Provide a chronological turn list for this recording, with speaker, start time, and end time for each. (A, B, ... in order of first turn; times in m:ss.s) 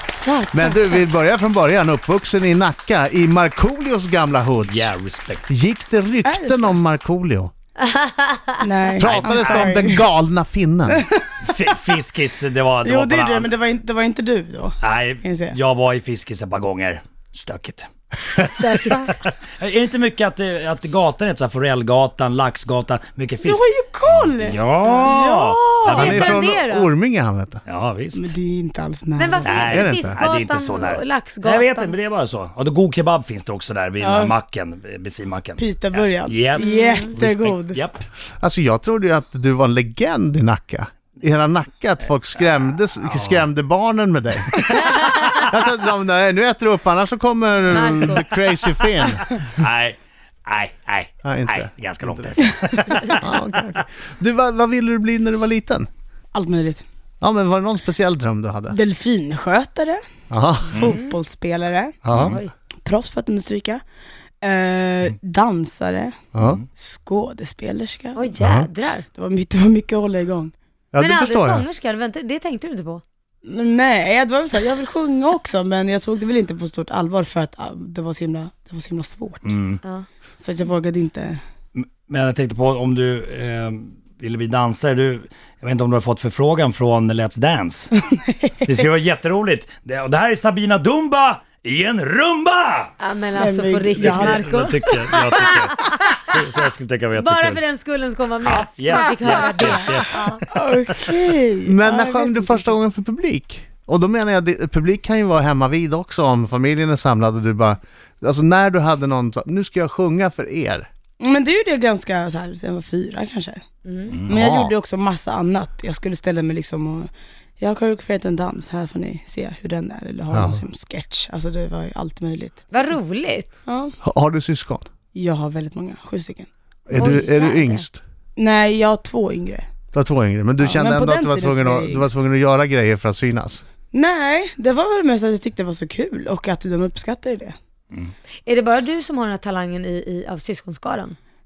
0:00.2-0:01.0 A
0:00.5-0:04.9 B
0:04.7-0:05.5 C
0:05.5-0:07.5 B
0:06.2-0:06.8 A
0:07.8-0:08.6 D
0:08.6-0:10.1 A
0:09.0-0:11.0 B
0:09.1-0:09.6 C
0:10.9-0:11.6 A
0:11.4-0:13.5 C
0:12.8-0:15.6 A
0:14.8-0:17.9 C
0:18.6-0:19.2 D
0:19.6-0:26.4 C
0:23.4-0:26.0 A
0:25.8-0:27.6 B
0:25.9-0:26.9 D
0:27.7-0:28.3 C
0:28.1-0:29.8 A
0:29.2-0:31.9 D
0:29.4-0:38.1 C
0:29.6-0:30.2 B
0:34.0-0:34.4 A
0:35.6-0:37.8 A
0:36.6-0:37.1 D
0:38.4-0:49.3 B
0:43.0-0:43.5 C
0:47.7-0:48.4 D
0:49.1-0:53.5 C
0:51.2-0:52.4 B
0:53.1-0:55.9 B
0:56.3-0:56.8 A
0:57.2-0:58.8 B
0:58.7-1:00.0 A
1:00.3-1:00.9 B
1:00.7-1:02.0 A
1:02.0-1:02.4 B
1:02.1-1:02.4 C
1:02.8-1:03.8 A
1:04.4-1:06.2 A
1:06.3-1:06.6 B
1:06.8-1:08.3 A
1:08.2-1:09.1 D
1:08.4-1:08.7 B
1:09.2-1:10.5 A
1:10.9-1:11.7 B
1:11.0-1:13.0 D
1:13.4-1:19.6 A
1:19.4-1:19.8 C
1:20.4-1:21.4 A
1:21.8-1:28.0 C
1:28.0-1:28.6 A
1:28.6-1:32.9 C
1:33.0-1:36.0 D
1:33.4-1:34.4 A
1:34.0-1:37.6 C
1:37.2-1:40.4 D
1:38.4-1:40.4 C
1:40.5-1:42.7 A
1:41.7-1:50.9 B
1:51.2-1:53.6 A
1:53.9-1:54.1 D
1:54.1-1:54.3 C
1:54.3-2:02.7 A
1:54.3-1:54.7 B
2:00.3-2:00.6 B
2:02.7-2:03.5 D
2:03.7-2:04.0 A
2:04.0-2:04.8 B
2:05.1-2:06.5 A
2:06.9-2:08.0 B
2:07.0-2:07.9 D
2:08.4-2:09.7 A
2:09.9-2:13.6 B
2:10.6-2:12.1 A
2:13.9-2:17.6 A
2:18.4-2:21.2 D